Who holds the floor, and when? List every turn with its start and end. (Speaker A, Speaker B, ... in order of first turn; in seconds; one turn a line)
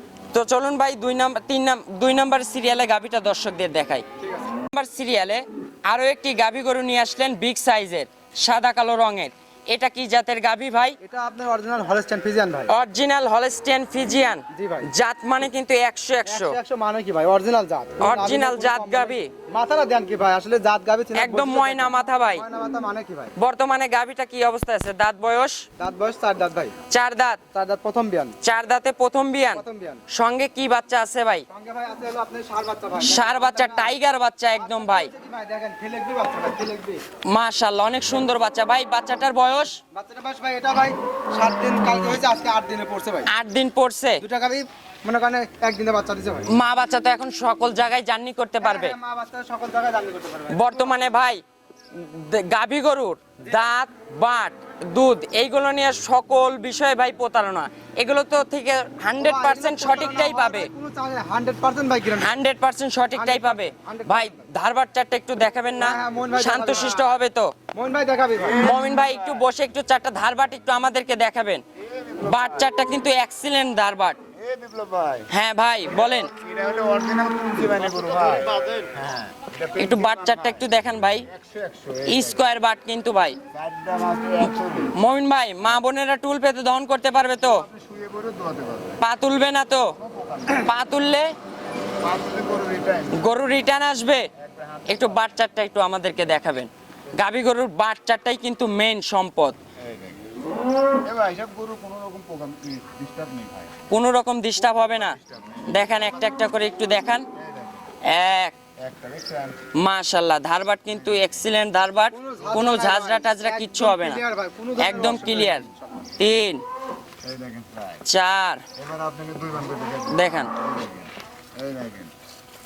Speaker A: 0.3-4.0
Speaker B: 4.2-4.5
Speaker A: 4.6-11.0
Speaker B: 11.0-12.7
Speaker A: 12.7-16.6
Speaker B: 14.5-14.9
Speaker B: 16.3-23.3
Speaker A: 18.0-19.3
Speaker A: 21.1-22.4
Speaker A: 23.4-25.6
Speaker B: 25.8-26.8
Speaker A: 26.9-27.4
Speaker B: 27.5-28.4
Speaker A: 28.4-31.5
Speaker B: 29.5-30.0
Speaker B: 31.5-33.9
Speaker A: 33.0-35.1
Speaker B: 34.6-37.0
Speaker A: 37.2-39.8
Speaker B: 39.9-43.3
Speaker A: 43.3-44.2
Speaker B: 44.2-46.5
Speaker A: 46.5-49.0
Speaker B: 48.6-51.0
Speaker A: 50.5-60.7
Speaker B: 59.2-62.4
Speaker A: 62.2-67.5
Speaker B: 63.1-64.5
Speaker B: 65.8-67.1
Speaker B: 67.8-68.7
Speaker A: 68.6-71.6
Speaker C: 68.6-69.2
Speaker C: 71.8-72.7
Speaker A: 72.2-74.2
Speaker C: 74.4-75.3
Speaker A: 75.3-76.3
Speaker C: 76.2-80.6
Speaker A: 79.8-81.3
Speaker C: 81.3-82.4
Speaker A: 82.0-83.4
Speaker C: 83.5-84.9
Speaker A: 84.9-87.7
Speaker C: 87.5-89.0
Speaker A: 89.0-90.0
Speaker C: 90.0-90.7
Speaker A: 90.5-91.3
Speaker C: 92.0-93.2
Speaker A: 93.1-94.3
Speaker C: 94.4-95.2
Speaker A: 94.9-99.6
Speaker C: 99.8-100.2
Speaker C: 100.9-103.8
Speaker A: 103.9-107.3
Speaker C: 105.0-105.9
Speaker C: 107.4-107.8
Speaker A: 108.0-108.6
Speaker C: 108.8-109.6
Speaker A: 109.7-114.2
Speaker B: 112.1-116.1
Speaker A: 114.8-116.6
Speaker C: 117.2-118.0
Speaker A: 118.0-118.6
Speaker C: 118.8-122.1
Speaker A: 120.1-120.5